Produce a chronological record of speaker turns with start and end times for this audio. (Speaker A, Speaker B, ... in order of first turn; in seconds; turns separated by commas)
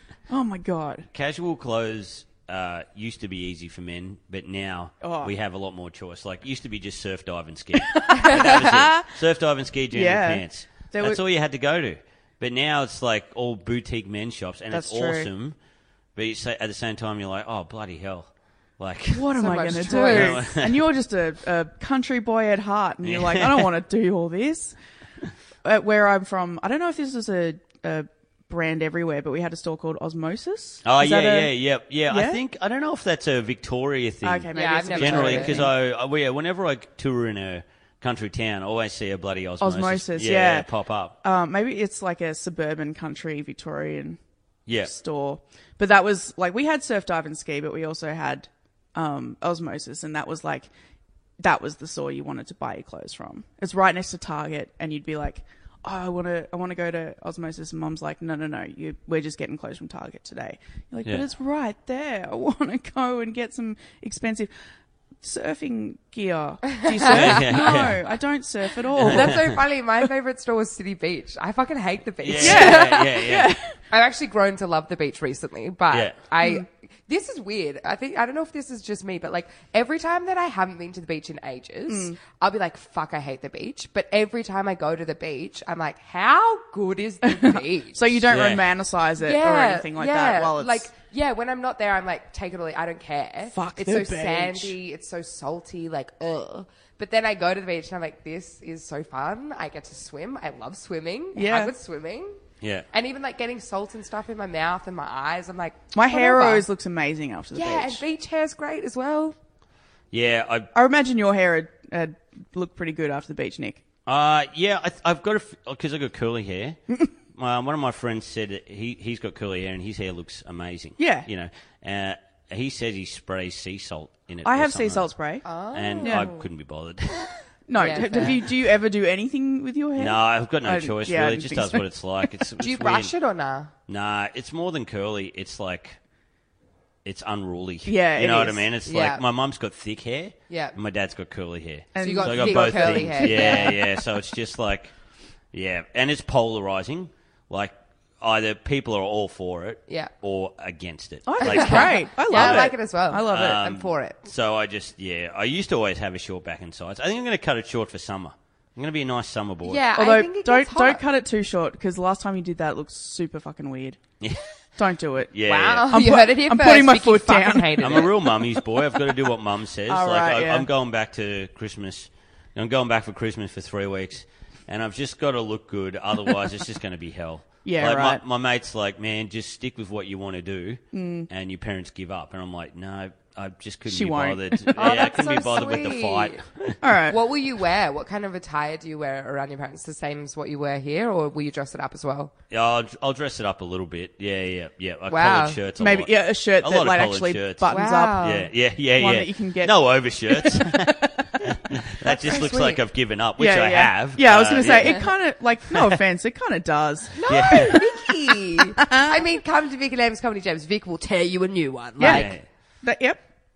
Speaker A: 0.3-1.1, Speaker B: 1.1-15.6, Speaker A: 5.0-5.3, Speaker A: 7.9-9.1, Speaker A: 9.9-11.2, Speaker A: 14.7-15.3, Speaker B: 16.1-20.9, Speaker A: 19.1-24.8, Speaker C: 19.4-20.4, Speaker B: 23.0-23.7, Speaker A: 25.6-31.5, Speaker B: 30.8-41.2, Speaker A: 32.1-32.4, Speaker A: 34.2-35.7, Speaker C: 34.5-35.6, Speaker A: 39.6-40.7, Speaker A: 41.2-44.2, Speaker B: 44.7-44.9, Speaker A: 44.8-50.7, Speaker A: 51.4-64.5, Speaker A: 65.2-69.5, Speaker C: 66.7-67.8, Speaker B: 67.1-68.0, Speaker B: 69.0-69.6, Speaker C: 69.0-73.2, Speaker B: 72.2-73.5, Speaker A: 72.3-73.8, Speaker C: 73.9-88.2, Speaker A: 81.9-82.2, Speaker A: 87.2-90.9, Speaker B: 88.3-88.7, Speaker C: 89.2-102.4, Speaker A: 93.5-94.8, Speaker A: 101.3-101.7, Speaker B: 102.6-102.8, Speaker C: 102.9-106.7, Speaker A: 105.9-108.0, Speaker C: 107.5-109.3, Speaker B: 110.1-110.7, Speaker A: 110.7-113.8, Speaker B: 114.0-125.1, Speaker A: 121.0-121.3, Speaker A: 124.4-125.4, Speaker C: 125.4-126.5, Speaker B: 125.7-128.5, Speaker A: 126.0-126.3, Speaker A: 127.7-132.3, Speaker C: 127.8-128.4, Speaker B: 130.0-133.1, Speaker C: 132.6-133.7, Speaker B: 133.9-136.0, Speaker B: 137.0-144.9, Speaker A: 137.8-138.7, Speaker C: 138.8-139.2, Speaker C: 140.5-140.8, Speaker A: 141.9-143.9, Speaker C: 142.0-143.8, Speaker B: 145.5-152.7, Speaker A: 151.2-153.6, Speaker C: 151.4-154.2, Speaker B: 153.3-159.8, Speaker C: 159.6-161.0, Speaker A: 159.9-164.0, Speaker B: 164.2-164.4, Speaker A: 164.8-165.3, Speaker B: 165.3-166.0, Speaker C: 165.4-168.2, Speaker A: 165.9-168.1, Speaker B: 167.8-186.8, Speaker A: 169.9-170.7, Speaker A: 177.6-178.2, Speaker A: 180.9-181.3, Speaker A: 183.9-185.0, Speaker C: 184.8-186.4, Speaker A: 186.8-187.2, Speaker C: 187.1-192.3, Speaker B: 192.5-205.1, Speaker C: 195.1-195.6, Speaker A: 195.8-202.7, Speaker C: 197.7-198.5, Speaker C: 202.0-202.8, Speaker A: 203.4-209.2, Speaker B: 205.7-206.0, Speaker C: 207.2-212.3, Speaker B: 207.2-207.8, Speaker A: 212.0-213.2, Speaker B: 212.0-212.4